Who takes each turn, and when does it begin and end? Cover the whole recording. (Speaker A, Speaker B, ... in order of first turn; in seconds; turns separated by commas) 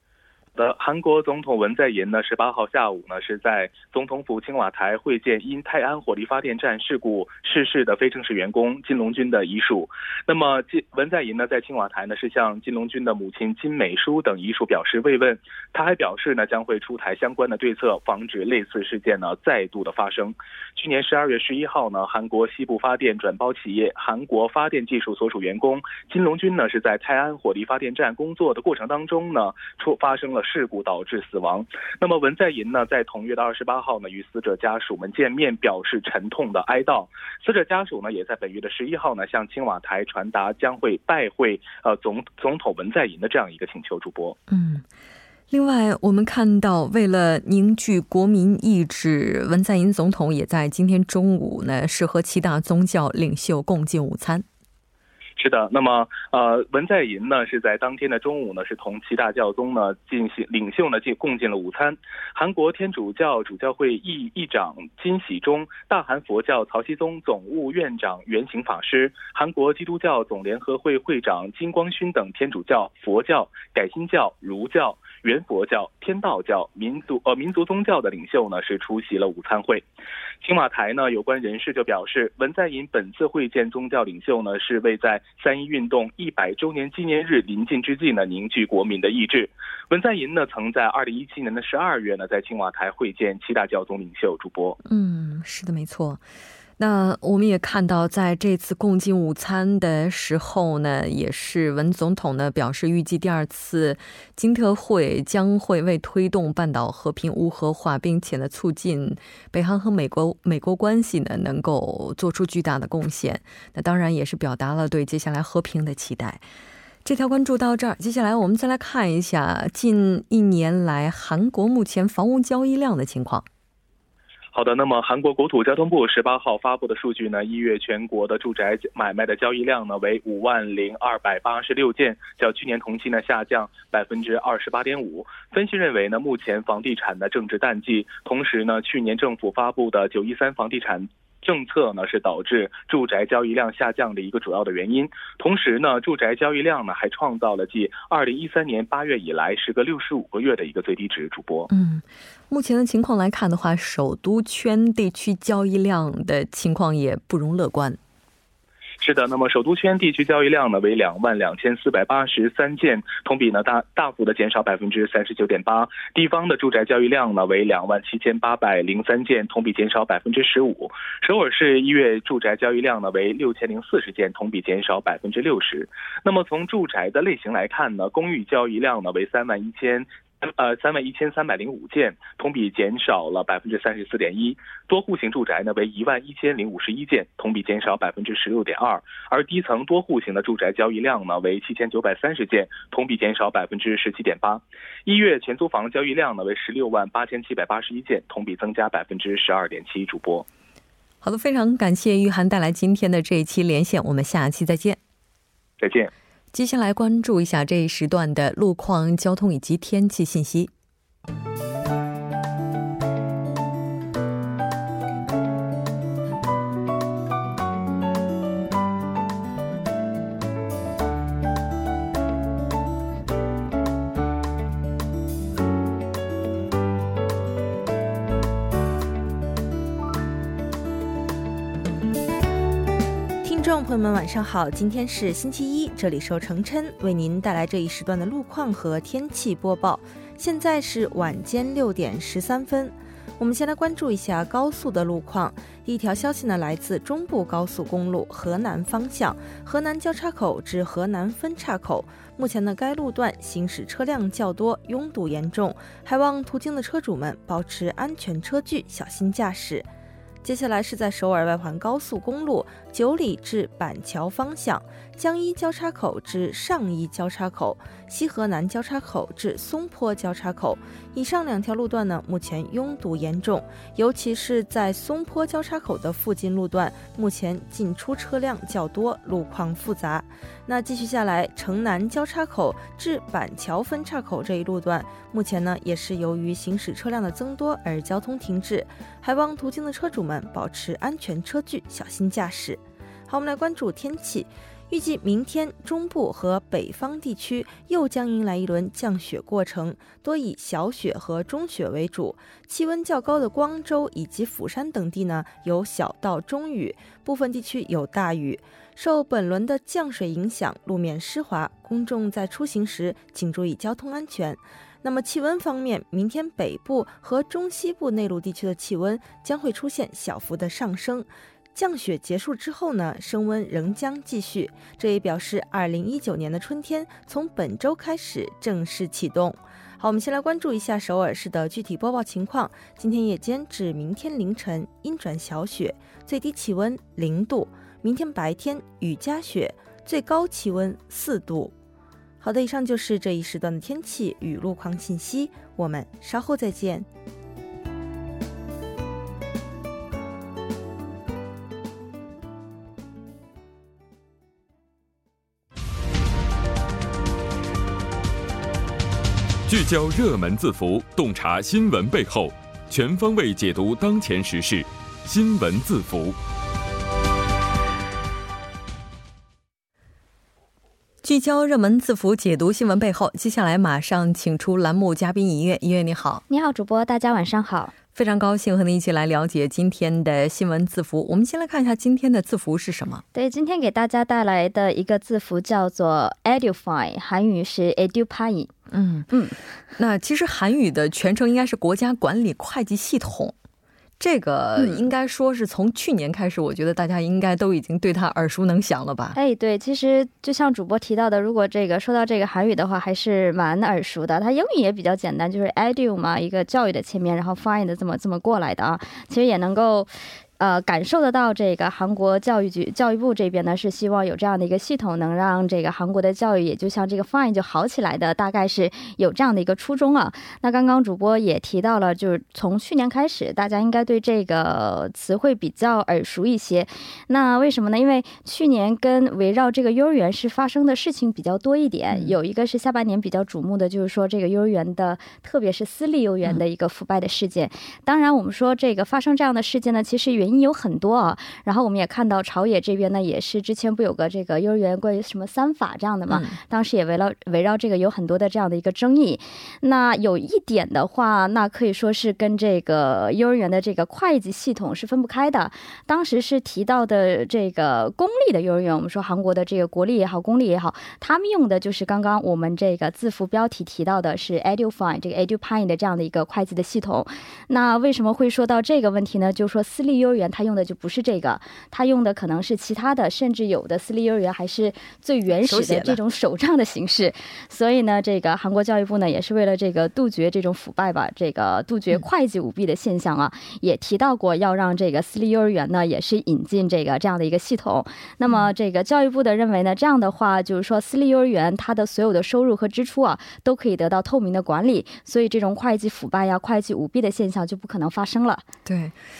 Speaker A: 0.6-44.4, Speaker B: 44.5-44.8, Speaker B: 45.5-54.5, Speaker A: 55.4-79.8, Speaker A: 80.4-94.8, Speaker B: 94.8-96.2, Speaker B: 96.8-116.4, Speaker B: 117.0-123.5, Speaker A: 124.5-151.7, Speaker B: 151.7-158.0, Speaker A: 159.0-200.4, Speaker B: 201.2-205.0, Speaker A: 205.8-206.1, Speaker B: 206.5-210.7, Speaker C: 233.4-259.9, Speaker C: 260.4-341.7, Speaker C: 342.4-347.1, Speaker D: 359.7-366.4, Speaker B: 371.2-376.4, Speaker E: 376.5-377.9, Speaker B: 378.1-383.2, Speaker E: 383.3-388.7, Speaker B: 388.9-389.3, Speaker E: 389.3-389.6, Speaker B: 390.0-393.6, Speaker B: 394.2-399.4, Speaker E: 399.3-498.6, Speaker B: 432.1-432.4, Speaker B: 475.6-476.2, Speaker B: 498.8-499.2